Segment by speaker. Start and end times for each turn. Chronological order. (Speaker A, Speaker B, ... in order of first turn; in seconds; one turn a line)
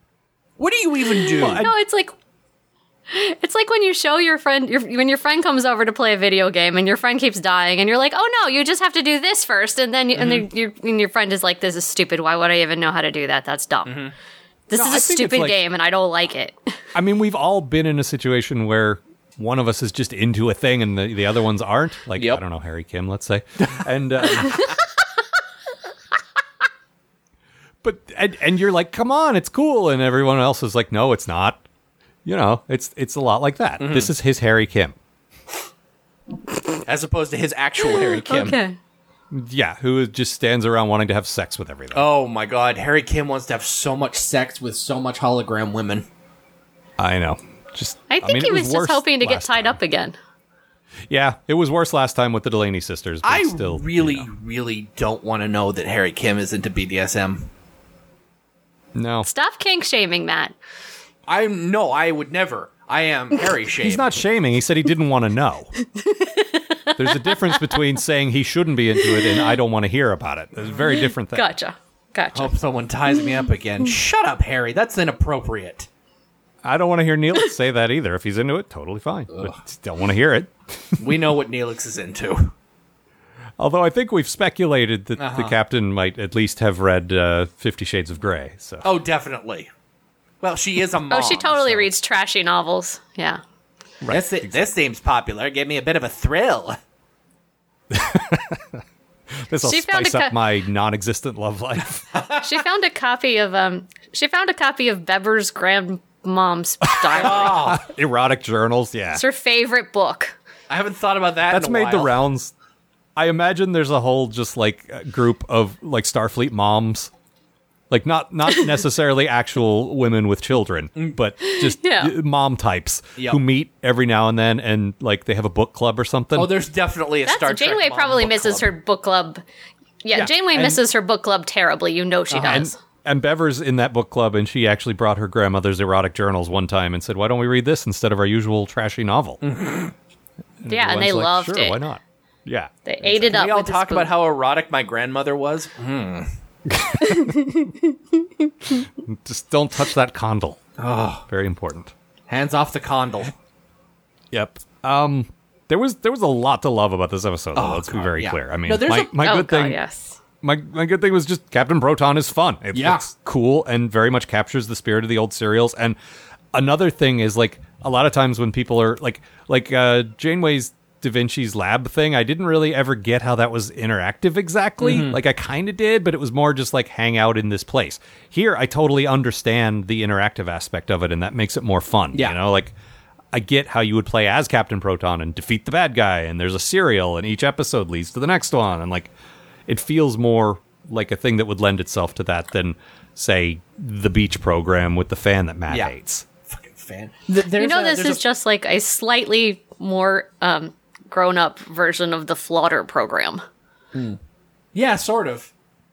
Speaker A: 0.6-1.6
Speaker B: 1.4-2.1
Speaker C: 1.4-1.7
Speaker B: 3.1-14.1
Speaker A: 10.2-10.5
Speaker A: 13.9-14.1
Speaker B: 14.7-16.7
Speaker C: 14.7-15.6
Speaker C: 16.9-24.7
Speaker A: 22.2-22.4
Speaker C: 27.8-31.6
Speaker C: 32.2-35.0
Speaker A: 33.8-34.1
Speaker A: 36.9-38.6
Speaker B: 38.0-38.8
Speaker C: 39.3-42.1
Speaker A: 41.9-46.1
Speaker C: 47.0-49.8
Speaker B: 48.1-50.2
Speaker C: 51.1-54.3
Speaker A: 53.2-57.5
Speaker C: 59.0-59.3
Speaker B: 59.2-60.5
Speaker A: 61.3-64.2
Speaker C: 63.8-65.7
Speaker B: 65.8-67.8
Speaker C: 67.0-71.5
Speaker B: 69.0-69.4
Speaker B: 70.9-72.5
Speaker A: 72.3-75.9
Speaker C: 76.6-81.0
Speaker A: 79.3-79.6
Speaker A: 81.0-82.5
Speaker C: 83.6-88.9
Speaker A: 85.2-85.6
Speaker A: 88.8-89.7
Speaker A: 90.4-91.9
Speaker B: 91.1-93.4
Speaker C: 94.0-94.6
Speaker A: 94.1-96.8
Speaker C: 97.9-98.8
Speaker C: 99.5-102.1
Speaker B: 99.6-100.4
Speaker A: 102.1-102.4
Speaker B: 102.4-107.7
Speaker C: 107.1-109.2
Speaker A: 107.1-107.9
Speaker B: 109.1-110.3
Speaker A: 110.7-112.2
Speaker C: 111.5-112.5
Speaker C: 113.2-117.1
Speaker C: 117.9-126.5
Speaker B: 121.4-122.2
Speaker A: 126.4-128.7
Speaker B: 127.3-129.4
Speaker B: 130.0-132.7
Speaker C: 130.1-130.7
Speaker A: 132.3-132.7
Speaker C: 132.4-139.4
Speaker A: 139.4-139.9
Speaker C: 140.6-143.3
Speaker B: 140.7-141.8
Speaker B: 142.9-144.1
Speaker A: 143.1-146.3
Speaker C: 146.7-147.5
Speaker B: 147.0-147.7
Speaker C: 149.0-150.6
Speaker A: 150.8-151.2
Speaker C: 151.3-151.9
Speaker A: 152.3-153.3
Speaker C: 154.3-159.8
Speaker A: 157.6-159.1
Speaker B: 159.1-160.2
Speaker C: 160.4-166.0
Speaker A: 162.7-163.1
Speaker C: 166.5-182.8
Speaker A: 174.8-175.2
Speaker C: 183.3-189.1
Speaker C: 189.7-196.2
Speaker A: 196.5-198.2
Speaker B: 197.6-203.4
Speaker A: 203.9-204.2
Speaker A: 204.7-205.5